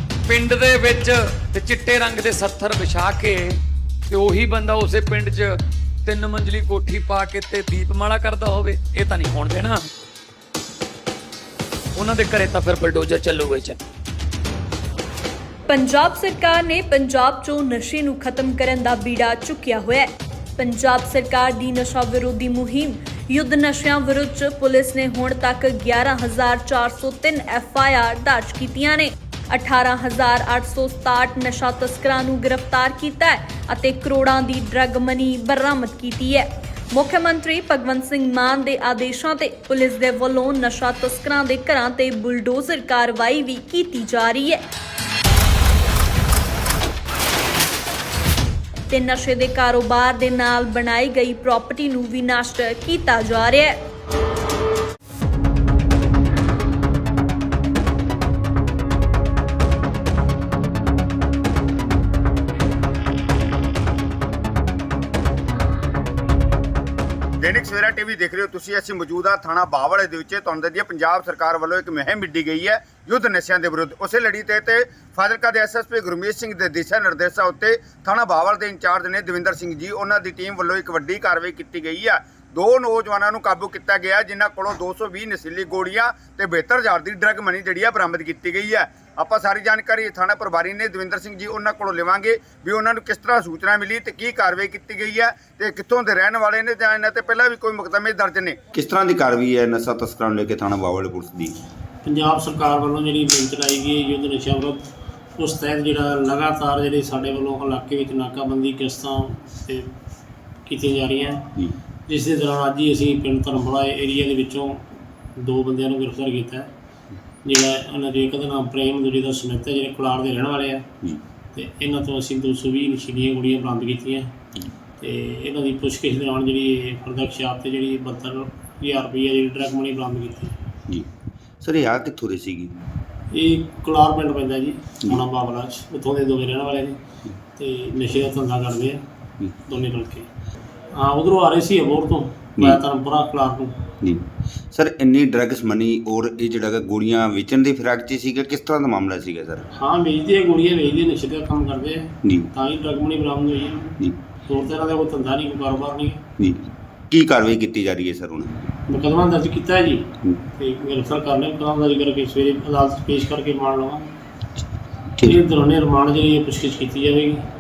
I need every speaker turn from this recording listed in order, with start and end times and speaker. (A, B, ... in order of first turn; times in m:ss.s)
0:00.3-0:03.6 A
0:04.1-0:09.9 A
0:12.0-0:13.8 A
0:15.7-0:44.6 B
0:48.9-0:53.8 B
1:07.4-1:38.7 C
1:38.7-1:41.6 D
1:42.0-1:44.8 E
1:45.4-1:49.9 E
1:50.7-1:51.5 E
1:52.1-1:56.7 E
1:57.4-2:00.9 E
2:01.5-2:04.3 E
2:05.0-2:10.5 E
2:11.6-2:12.7 D
2:13.3-2:17.0 E
2:17.6-2:19.0 E
2:19.7-2:20.3 E
2:20.9-2:23.8 E
2:24.0-2:29.7 D
2:29.8-2:36.2 E
2:32.2-2:32.5 D
2:36.4-2:38.7 D
2:38.9-2:44.1 E
2:45.2-2:47.4 E